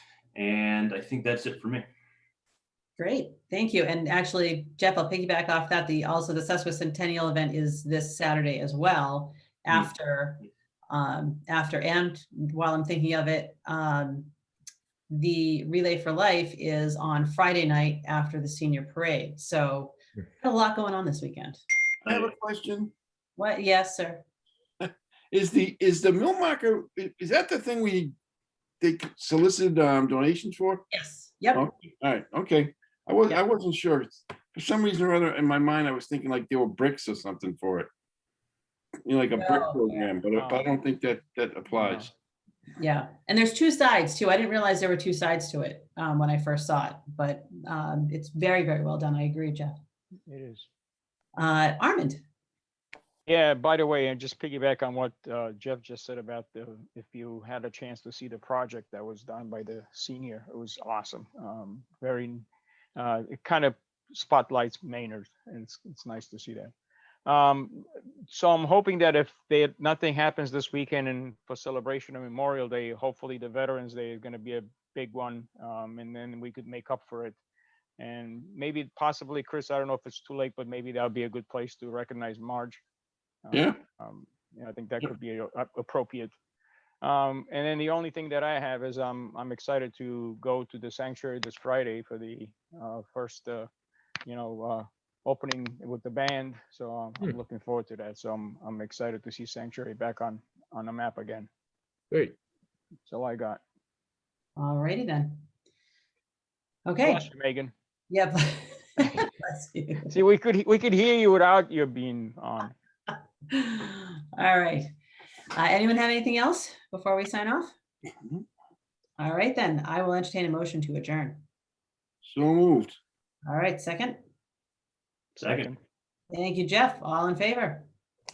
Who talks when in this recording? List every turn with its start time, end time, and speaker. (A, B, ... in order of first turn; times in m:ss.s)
0:00.4-0:01.9 A
0:03.0-0:14.3 B
0:15.1-0:21.6 B
0:22.0-0:22.3 A
0:22.1-0:22.9 C
0:23.4-0:24.2 B
0:24.8-0:28.1 C
0:28.8-0:30.8 C
0:30.9-0:31.6 B
0:31.5-0:37.9 C
0:39.1-0:42.1 C
0:39.4-0:39.8 B
0:40.3-0:40.7 D
0:41.8-0:42.1 D
0:42.8-0:49.8 B
0:50.3-0:50.7 D
0:51.4-0:52.2 B
0:53.3-1:02.4 D
1:03.0-1:06.7 D
1:07.3-1:17.4 D
1:18.0-1:22.8 D
1:23.4-1:26.3 D
1:23.5-1:23.8 C
1:27.0-1:33.7 D
1:34.2-1:41.5 D
1:43.1-1:43.6 D
1:44.6-1:45.4 B
1:46.9-1:47.3 B
1:47.0-1:47.7 D
1:48.1-1:50.1 B
1:50.1-1:52.8 D
1:53.1-1:54.9 B
1:55.5-1:57.7 B
1:59.2-2:01.4 B
2:02.2-2:03.0 C
2:03.5-2:04.2 B
2:05.4-2:05.8 D
2:05.4-2:05.7 A
2:06.3-2:07.9 B